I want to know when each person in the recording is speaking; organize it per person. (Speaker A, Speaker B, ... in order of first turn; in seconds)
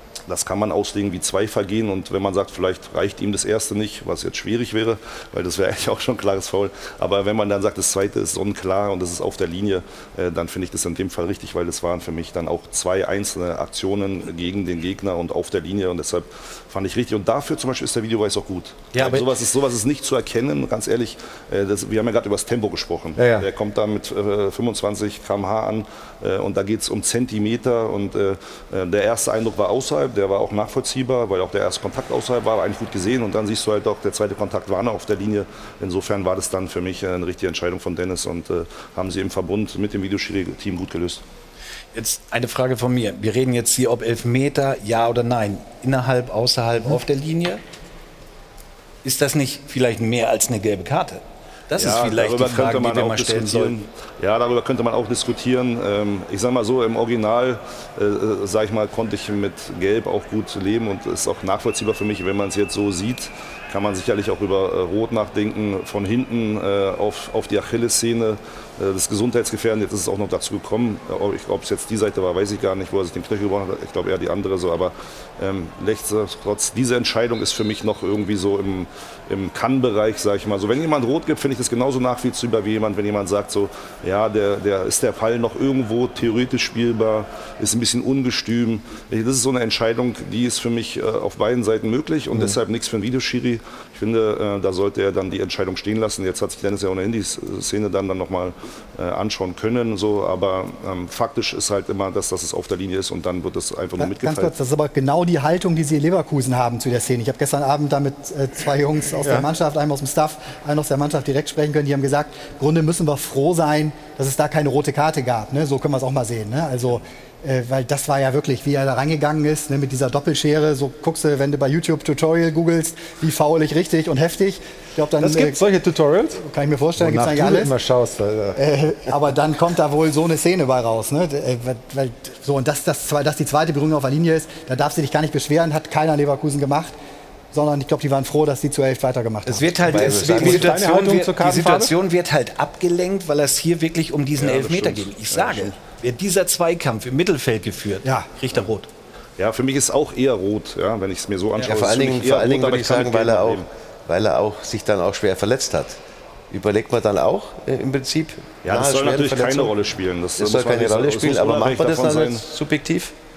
Speaker A: 0.3-41.2, 51.7-104.5, 144.4-145.8, 149.4-153.7, 158.6-162.4
Speaker B: 23.2-23.5, 109.2-109.5, 125.2-126.4, 127.0-128.6, 139.8-141.9
Speaker C: 41.9-47.6, 49.0-53.8, 139.4-148.9
Speaker D: 104.0-125.6, 126.4-127.7, 128.6-136.9, 137.5-139.7, 148.0-148.3
Speaker E: 139.7-140.8, 151.6-156.0, 156.5-159.7, 160.4-163.1